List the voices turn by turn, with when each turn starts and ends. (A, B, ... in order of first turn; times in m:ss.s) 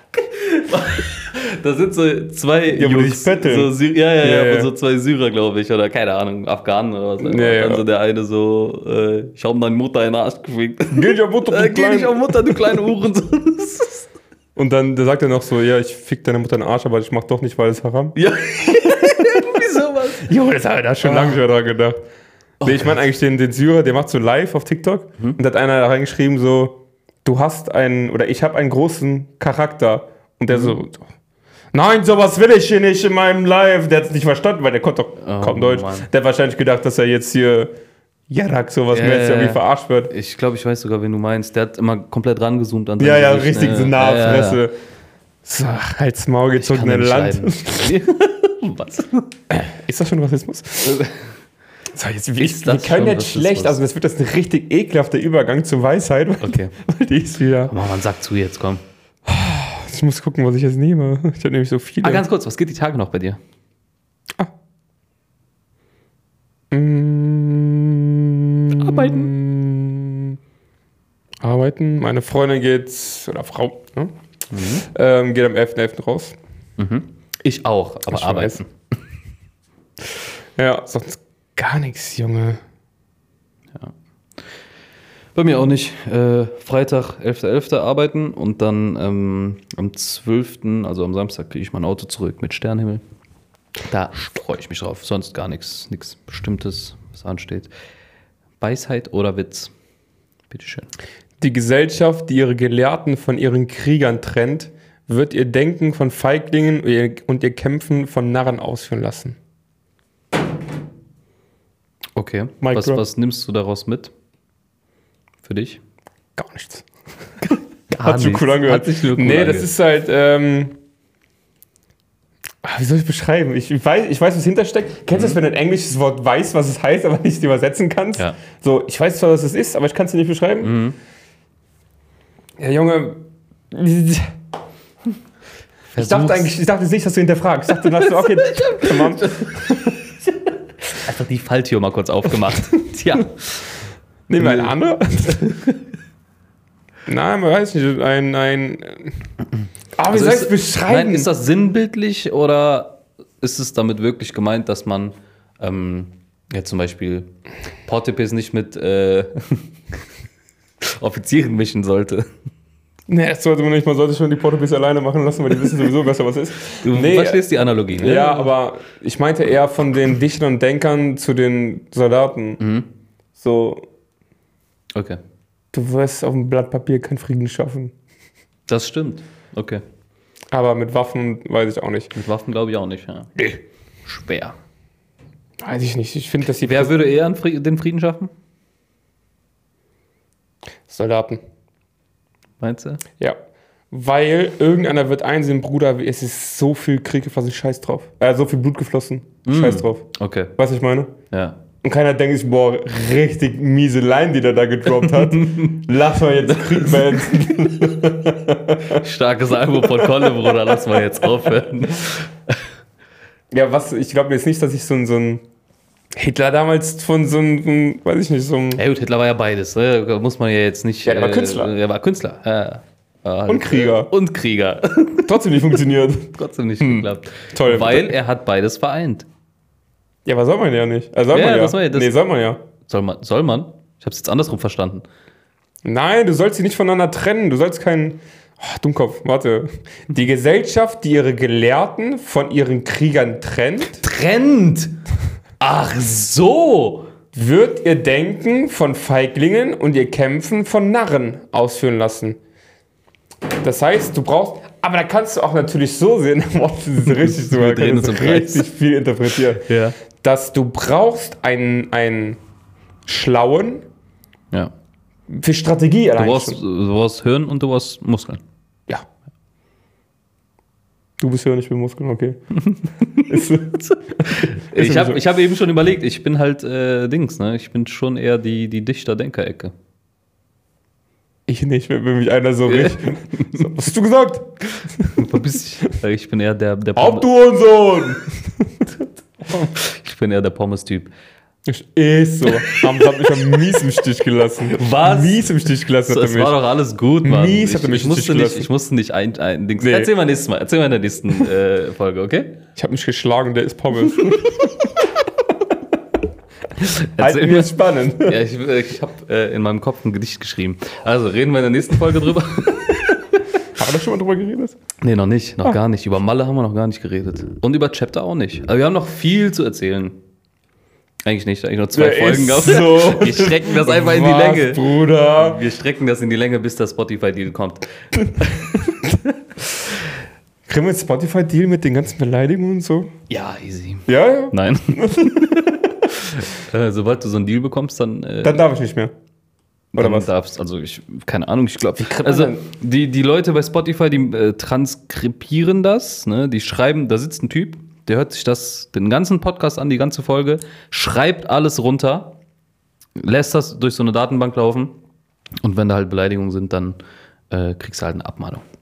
0:00.1-0:14.1 A
0:02.7-0:04.7 B
0:07.2-0:07.8 B
0:10.9-0:12.6 B
0:14.6-0:18.2 B
0:18.1-0:20.3 A
0:20.2-0:22.0 B
0:21.0-0:21.4 A
0:22.6-0:31.1 B
0:30.5-0:30.8 A
0:31.7-0:37.7 B
0:35.2-0:36.1 A
0:38.3-0:40.1 B
0:38.9-0:44.6 A
0:43.0-0:44.7 B
0:45.4-0:48.0 B
0:46.6-0:49.3 A
0:49.5-0:51.1 B
0:50.8-0:51.2 A
0:51.9-0:57.8 B
0:52.4-0:53.8 A
0:56.4-0:56.7 A
0:57.7-0:58.8 A
0:59.2-1:02.2 B
1:02.0-1:03.4 A
1:06.7-1:10.4 B
1:08.7-1:09.3 A
1:11.4-1:14.1 B
1:14.5-1:14.8 A
1:14.8-1:16.4 B
1:16.8-1:18.7 A
1:18.1-1:18.6 B
1:20.6-1:22.6 B
1:25.3-1:33.0 A
1:33.8-1:37.7 A
1:38.6-1:39.7 A
1:40.5-1:40.9 A
1:41.4-1:49.4 B
1:52.2-1:54.1 A
1:52.6-1:53.0 B
1:55.4-1:55.8 A
1:56.4-1:56.8 B
1:57.4-1:59.7 A
1:58.0-2:00.8 B
2:02.6-2:10.7 B
2:05.1-2:05.4 A
2:10.6-2:11.0 A
2:12.6-2:14.3 B
2:15.9-2:16.5 A
2:16.0-2:19.9 B
2:17.8-2:20.0 A
2:20.9-2:23.7 A
2:24.3-2:25.4 B
2:24.4-2:24.7 A
2:25.3-2:25.8 A
2:27.1-2:29.2 B
2:30.0-2:31.3 B
2:30.1-2:37.3 A
2:37.8-2:39.7 A
2:40.9-2:42.2 A
2:43.1-2:52.6 B
2:46.8-2:48.5 A
2:52.6-2:52.9 A
2:53.4-2:53.8 B
2:54.9-2:55.2 A
2:55.7-2:57.9 B
2:58.7-2:59.8 A
3:00.5-3:02.1 B
3:02.1-3:03.5 A
3:04.0-3:04.6 A
3:05.6-3:06.9 B
3:06.6-3:08.3 A
3:10.9-3:11.4 B
3:12.6-3:13.0 A
3:13.9-3:21.2 B
3:19.4-3:20.5 A
3:21.3-3:21.6 A
3:21.8-3:29.0 B
3:25.0-3:25.8 A
3:26.4-3:27.5 A
3:28.9-3:32.6 A
3:30.0-3:30.4 B
3:33.5-3:35.4 B
3:36.1-3:38.8 B
3:38.8-3:45.7 A
3:41.0-3:41.7 B
3:43.5-3:44.1 B
3:45.2-3:48.2 B
3:46.3-3:49.3 A
3:50.2-3:52.6 B
3:51.3-3:52.1 A
3:52.8-3:55.0 A
3:55.8-4:04.0 B
4:04.0-4:05.0 A
4:05.6-4:07.1 A
4:07.3-4:12.4 B
4:13.5-4:22.4 B
4:17.0-4:18.6 A
4:19.6-4:20.0 A
4:23.0-4:23.8 B
4:25.3-4:26.6 B
4:26.2-4:28.4 A
4:31.2-4:32.4 B
4:32.7-4:33.3 A
4:33.2-4:35.2 B
4:33.9-4:39.7 A
4:41.5-4:45.3 B
4:42.7-4:43.7 A
4:45.2-4:47.2 A
4:47.0-4:48.9 B
4:49.5-4:51.1 A
4:51.6-4:56.6 B
4:52.5-4:53.4 A
4:54.7-5:02.6 A
4:57.2-4:58.7 B
4:59.8-5:00.1 B
5:02.8-5:05.0 B
5:06.8-5:13.4 A
5:07.2-5:08.4 B
5:13.7-5:14.8 B
5:15.0-5:20.2 A
5:21.2-5:28.9 A
5:21.9-5:25.6 B
5:30.6-5:33.1 B
5:33.3-5:38.6 A
5:34.1-5:35.8 B
5:38.4-5:39.1 B
5:39.9-5:40.3 B
5:39.9-5:52.4 A
5:42.0-5:42.6 B
5:53.2-5:54.9 A
5:55.6-5:57.0 A
5:57.5-5:58.6 A